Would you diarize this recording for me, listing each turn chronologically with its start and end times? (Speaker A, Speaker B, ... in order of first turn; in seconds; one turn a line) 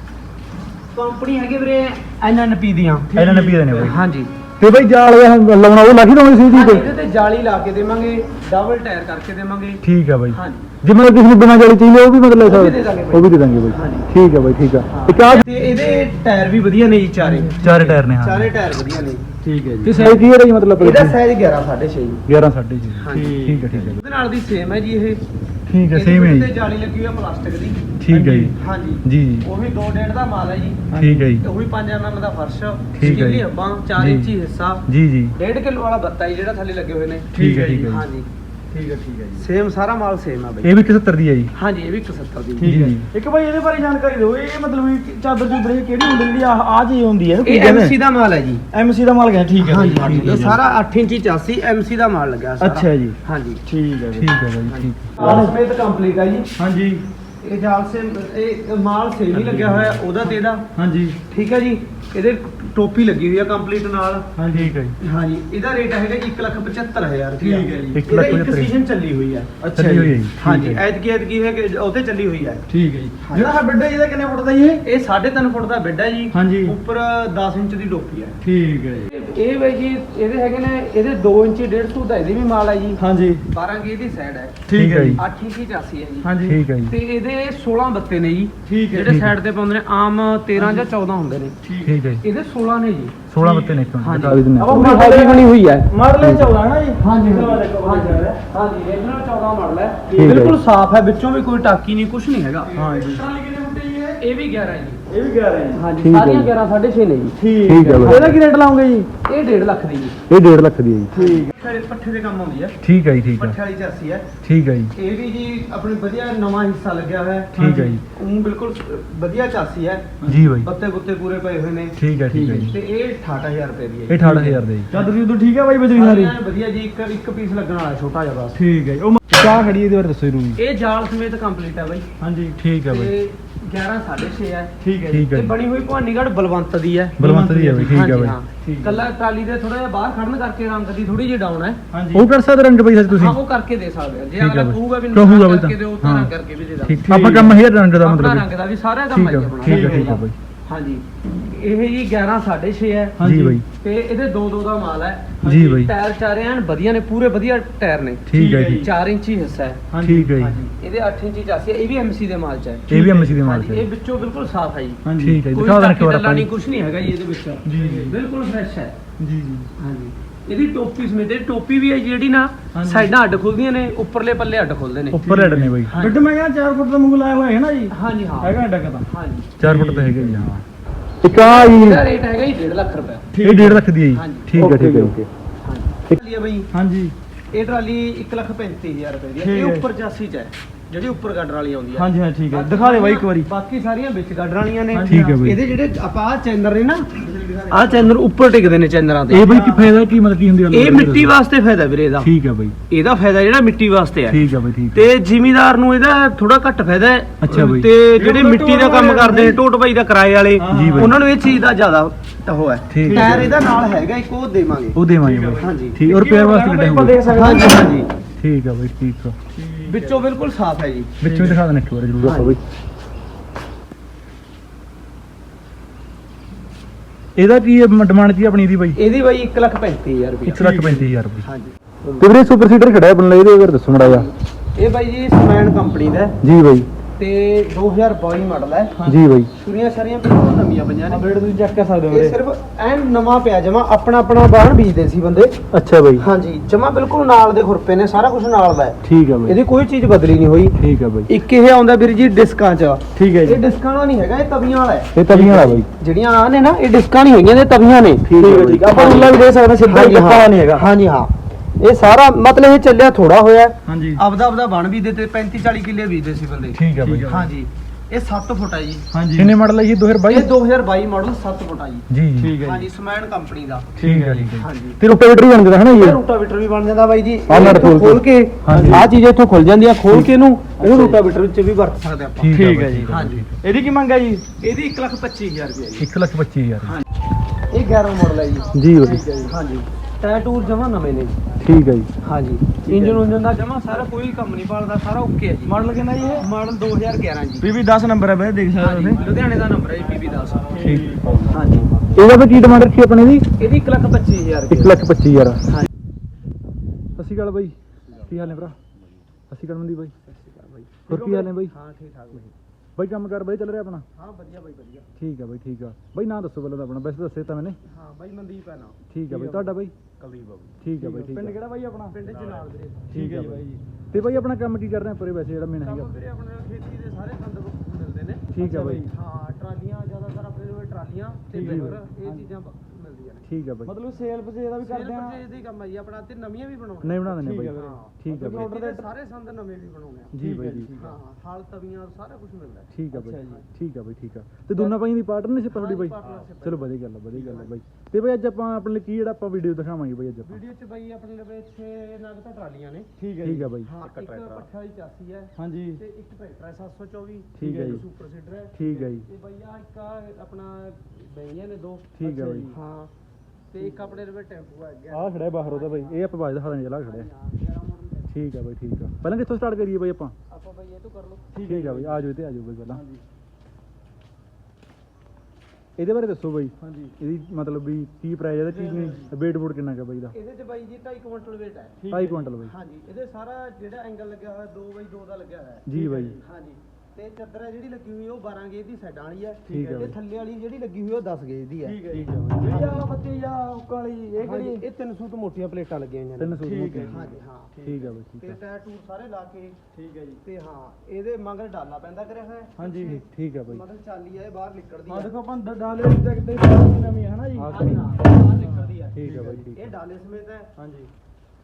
Speaker A: 0.9-3.1
Speaker B: 3.1-4.0
Speaker C: 3.1-4.0
Speaker A: 3.8-4.3
Speaker C: 4.6-6.9
Speaker A: 6.5-10.7
Speaker C: 9.8-15.4
Speaker A: 12.4-14.1
Speaker A: 14.9-19.3
Speaker C: 17.3-18.5
Speaker B: 17.6-18.1
Speaker B: 19.4-20.2
Speaker C: 19.8-21.2
Speaker A: 20.8-22.2
Speaker C: 22.3-24.0
Speaker A: 23.0-23.4
Speaker B: 23.1-24.0
Speaker A: 24.0-25.2
Speaker C: 25.7-26.5
Speaker A: 25.9-27.9
Speaker C: 28.0-29.5
Speaker B: 28.1-28.5
Speaker A: 28.5-30.9
Speaker B: 30.9-31.4
Speaker C: 30.9-31.4
Speaker A: 31.4-34.8
Speaker C: 33.0-34.3
Speaker B: 33.0-33.3
Speaker C: 34.9-35.4
Speaker A: 35.4-37.3
Speaker B: 37.3-38.0
Speaker C: 37.3-38.0
Speaker A: 37.9-38.3
Speaker B: 38.7-39.5
Speaker A: 39.4-40.7
Speaker C: 40.6-41.5
Speaker A: 41.5-42.7
Speaker B: 42.6-48.0
Speaker C: 42.6-43.1
Speaker A: 47.4-48.7
Speaker B: 48.7-50.6
Speaker A: 49.6-53.6
Speaker C: 50.0-50.3
Speaker B: 52.6-54.5
Speaker C: 54.1-55.5
Speaker A: 54.6-56.5
Speaker B: 55.2-55.5
Speaker B: 56.6-57.1
Speaker A: 57.4-60.7
Speaker C: 59.3-60.0
Speaker B: 60.7-61.2
Speaker A: 61.3-64.3
Speaker B: 64.3-64.8
Speaker C: 64.5-65.0
Speaker A: 65.0-69.5
Speaker B: 67.4-68.0
Speaker C: 67.9-68.8
Speaker B: 69.6-70.3
Speaker C: 69.7-70.8
Speaker A: 70.4-72.6
Speaker B: 72.7-74.8
Speaker A: 73.2-73.5
Speaker A: 74.8-78.4
Speaker B: 76.3-76.8
Speaker B: 78.4-79.1
Speaker A: 79.1-84.6
Speaker B: 83.0-83.5
Speaker B: 84.7-85.2
Speaker C: 84.7-85.2
Speaker A: 85.2-86.3
Speaker B: 86.2-86.6
Speaker C: 86.4-86.9
Speaker A: 86.9-91.5
Speaker B: 88.7-89.2
Speaker C: 89.1-89.3
Speaker B: 90.6-90.9
Speaker B: 91.6-92.0
Speaker C: 91.8-92.2
Speaker A: 92.2-93.3
Speaker C: 93.3-94.8
Speaker B: 93.4-93.9
Speaker A: 93.9-95.9
Speaker B: 94.6-98.4
Speaker C: 96.2-96.5
Speaker A: 97.0-102.7
Speaker B: 100.1-100.5
Speaker C: 100.2-100.6
Speaker B: 102.7-104.2
Speaker A: 104.2-105.0
Speaker B: 105.1-105.8
Speaker A: 105.7-107.4
Speaker C: 106.0-106.5
Speaker B: 107.4-109.1
Speaker C: 107.6-108.3
Speaker A: 107.9-108.4
Speaker A: 109.2-110.2
Speaker C: 110.3-111.2
Speaker A: 111.1-112.8
Speaker B: 111.2-111.5
Speaker C: 112.8-113.6
Speaker A: 113.4-114.3
Speaker C: 114.4-114.9
Speaker A: 114.9-117.5
Speaker B: 117.5-118.0
Speaker C: 117.5-118.0
Speaker A: 118.1-122.0
Speaker B: 120.2-120.5
Speaker C: 120.2-120.7
Speaker C: 122.0-122.8
Speaker B: 122.3-122.7
Speaker A: 122.7-124.2
Speaker C: 124.1-124.9
Speaker B: 124.2-126.4
Speaker A: 125.9-128.6
Speaker B: 128.6-129.5
Speaker C: 129.3-130.6
Speaker A: 130.6-132.1
Speaker B: 132.2-132.6
Speaker C: 132.6-133.1
Speaker A: 132.9-134.7
Speaker B: 134.8-135.3
Speaker C: 135.1-135.6
Speaker A: 135.3-137.2
Speaker C: 137.2-138.4
Speaker B: 137.2-139.1
Speaker A: 137.9-141.8
Speaker B: 141.9-142.3
Speaker C: 142.1-143.4
Speaker A: 143.1-147.0
Speaker C: 144.4-146.3
Speaker C: 146.8-148.5
Speaker B: 147.0-147.6
Speaker A: 147.9-153.2
Speaker C: 149.1-150.4
Speaker B: 149.6-150.2
Speaker B: 153.2-153.6
Speaker C: 153.2-153.7
Speaker A: 153.8-159.8
Speaker B: 155.4-155.7
Speaker C: 155.4-155.9
Speaker C: 158.3-158.8
Speaker B: 158.3-158.9
Speaker B: 159.9-160.5
Speaker C: 160.0-160.6
Speaker A: 160.4-169.0
Speaker C: 162.9-163.9
Speaker B: 162.9-163.3
Speaker B: 165.0-165.4
Speaker C: 165.2-166.5
Speaker B: 167.7-168.2
Speaker B: 169.2-169.7
Speaker A: 169.8-175.2
Speaker B: 172.7-173.1
Speaker C: 175.1-175.9
Speaker B: 175.3-179.1
Speaker A: 175.8-176.2
Speaker A: 177.9-179.5
Speaker B: 179.6-180.5
Speaker C: 179.6-180.6
Speaker C: 181.2-182.1
Speaker A: 181.3-183.3
Speaker B: 183.3-183.9
Speaker C: 183.4-185.3
Speaker A: 184.1-184.6
Speaker B: 184.6-185.2
Speaker A: 185.6-186.7
Speaker B: 186.7-187.2
Speaker A: 187.5-197.1
Speaker B: 189.4-189.9
Speaker B: 191.9-193.5
Speaker B: 194.9-195.4
Speaker C: 195.1-195.6
Speaker B: 197.2-198.2
Speaker A: 197.7-199.6
Speaker C: 199.3-201.3
Speaker B: 199.4-199.9
Speaker A: 200.7-202.3
Speaker C: 202.2-202.8
Speaker A: 202.9-215.0
Speaker C: 204.3-205.1
Speaker C: 207.4-207.9
Speaker B: 208.0-209.6
Speaker B: 210.6-211.2
Speaker C: 210.7-211.2
Speaker C: 212.9-213.5
Speaker B: 213.0-213.7
Speaker C: 214.9-217.2
Speaker B: 215.2-218.0
Speaker A: 215.6-216.0
Speaker A: 217.2-218.1
Speaker C: 218.4-219.4
Speaker B: 219.6-220.2
Speaker A: 219.9-221.2
Speaker C: 221.2-222.6
Speaker B: 221.2-221.6
Speaker A: 222.2-222.6
Speaker C: 227.4-229.0
Speaker A: 228.9-230.7
Speaker C: 230.5-231.5
Speaker B: 230.6-231.1
Speaker A: 231.4-232.3
Speaker C: 232.2-234.3
Speaker A: 234.0-236.3
Speaker C: 236.4-236.9
Speaker A: 237.2-239.0
Speaker B: 239.0-239.2
Speaker C: 239.1-239.5
Speaker A: 239.5-241.2
Speaker B: 241.1-242.4
Speaker A: 242.1-245.6
Speaker C: 245.7-246.3
Speaker A: 246.2-255.2
Speaker C: 249.0-249.6
Speaker C: 250.8-251.3
Speaker B: 253.2-253.6
Speaker C: 255.2-255.9
Speaker B: 255.3-255.9
Speaker A: 255.9-258.3
Speaker C: 258.3-259.2
Speaker B: 258.4-260.9
Speaker A: 258.9-269.1
Speaker B: 263.9-264.2
Speaker C: 266.7-267.3
Speaker B: 267.0-267.5
Speaker B: 269.1-269.6
Speaker C: 269.4-270.5
Speaker A: 270.3-272.1
Speaker C: 272.1-272.6
Speaker B: 272.4-272.9
Speaker A: 272.6-273.9
Speaker B: 274.0-274.6
Speaker C: 274.0-276.2
Speaker A: 274.6-275.0
Speaker A: 275.9-283.4
Speaker C: 277.5-279.1
Speaker B: 278.7-279.1
Speaker B: 280.8-281.2
Speaker C: 282.4-283.6
Speaker B: 282.5-284.4
Speaker A: 284.6-286.1
Speaker C: 286.0-287.0
Speaker A: 287.7-288.7
Speaker C: 288.7-289.2
Speaker B: 289.0-289.5
Speaker A: 289.4-291.4
Speaker C: 291.6-292.1
Speaker A: 292.2-295.8
Speaker B: 292.9-293.4
Speaker B: 295.7-296.5
Speaker A: 296.4-297.7
Speaker B: 297.6-299.2
Speaker A: 298.8-300.7
Speaker B: 300.7-301.9
Speaker C: 300.8-301.2
Speaker A: 301.5-301.9
Speaker C: 302.1-303.5
Speaker A: 303.6-305.0
Speaker C: 304.7-305.6
Speaker C: 307.2-308.8
Speaker C: 309.5-310.1
Speaker A: 310.2-311.1
Speaker B: 311.1-311.6
Speaker C: 311.1-311.7
Speaker A: 311.6-312.5
Speaker C: 313.0-314.1
Speaker A: 314.1-315.1
Speaker C: 315.2-317.8
Speaker A: 317.8-319.0
Speaker C: 319.1-319.9
Speaker B: 319.3-319.7
Speaker A: 320.2-320.8
Speaker C: 320.8-321.6
Speaker B: 320.9-322.2
Speaker A: 322.1-323.1
Speaker B: 323.1-323.8
Speaker C: 323.1-326.2
Speaker A: 324.1-324.5
Speaker A: 325.8-333.4
Speaker C: 328.5-329.1
Speaker B: 328.6-329.1
Speaker B: 331.5-332.5
Speaker C: 331.6-332.0
Speaker C: 333.5-333.9
Speaker B: 333.9-335.4
Speaker A: 334.8-340.3
Speaker C: 337.0-338.8
Speaker B: 337.2-339.1
Speaker C: 340.3-340.9
Speaker B: 340.4-341.2
Speaker A: 340.9-342.9
Speaker C: 342.9-350.6
Speaker B: 343.1-343.6
Speaker A: 344.7-345.0
Speaker A: 345.7-347.7
Speaker A: 350.4-353.1
Speaker B: 353.2-353.7
Speaker C: 353.4-353.9
Speaker A: 353.8-362.2
Speaker B: 355.6-356.0
Speaker C: 357.6-358.0
Speaker B: 357.6-358.0
Speaker C: 358.8-359.3
Speaker C: 362.2-362.7
Speaker B: 362.2-362.8
Speaker A: 362.7-363.1
Speaker A: 363.7-366.3
Speaker B: 363.8-364.2
Speaker C: 365.1-367.3
Speaker A: 367.0-368.3
Speaker C: 368.3-370.4
Speaker A: 370.5-371.5
Speaker B: 371.5-372.2
Speaker C: 371.6-373.0
Speaker B: 372.9-373.2
Speaker C: 376.0-380.3
Speaker B: 376.8-377.1
Speaker B: 378.7-379.3
Speaker A: 380.3-382.0
Speaker B: 382.0-382.5
Speaker C: 382.1-382.7
Speaker A: 382.6-385.9
Speaker C: 385.9-386.4
Speaker B: 385.9-386.4
Speaker A: 386.4-392.0
Speaker B: 389.6-390.1
Speaker C: 389.7-390.2
Speaker B: 391.8-394.9
Speaker A: 392.5-393.1
Speaker A: 394.4-399.8
Speaker C: 396.4-397.3
Speaker B: 396.6-397.9
Speaker C: 397.8-398.6
Speaker B: 399.9-400.4
Speaker A: 400.4-405.3
Speaker B: 402.8-403.2
Speaker C: 403.0-403.8
Speaker B: 405.1-408.1
Speaker C: 407.6-408.1
Speaker A: 407.7-410.7
Speaker C: 409.1-409.9
Speaker B: 409.2-409.7
Speaker B: 410.8-411.1